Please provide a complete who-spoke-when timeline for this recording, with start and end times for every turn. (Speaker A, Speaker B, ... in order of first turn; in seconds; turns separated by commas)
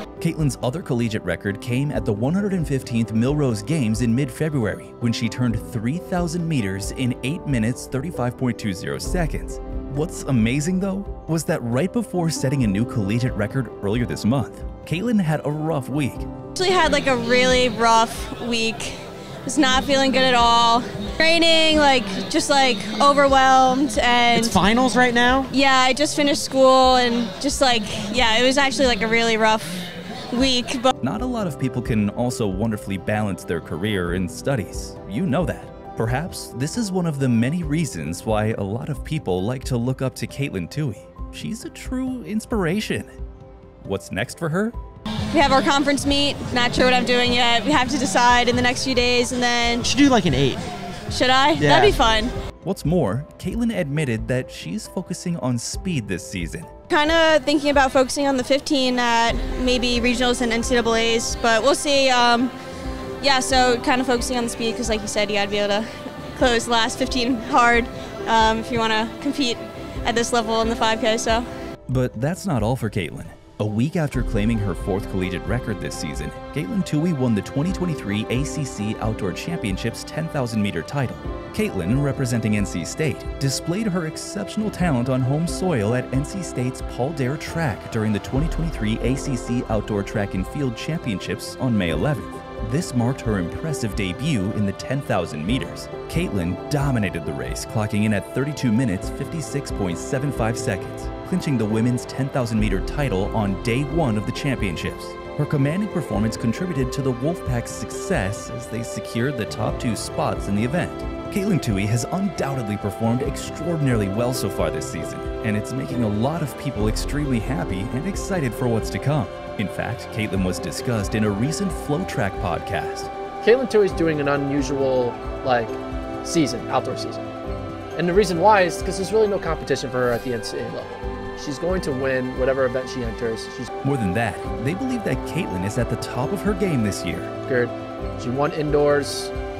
Speaker A: 0.2-16.3, Speaker B: 16.5-24.6, Speaker C: 24.3-25.5, Speaker B: 25.5-30.9, Speaker A: 31.0-43.1, Speaker A: 43.8-44.8, Speaker B: 45.3-49.9, Speaker C: 49.8-50.6, Speaker B: 51.1-52.3, Speaker C: 51.6-52.0, Speaker A: 52.6-56.7, Speaker B: 56.9-62.5, Speaker B: 63.2-71.5, Speaker A: 71.9-123.1, Speaker D: 123.4-127.3, Speaker D: 127.9-133.7, Speaker A: 133.8-137.3, Speaker D: 137.4-139.3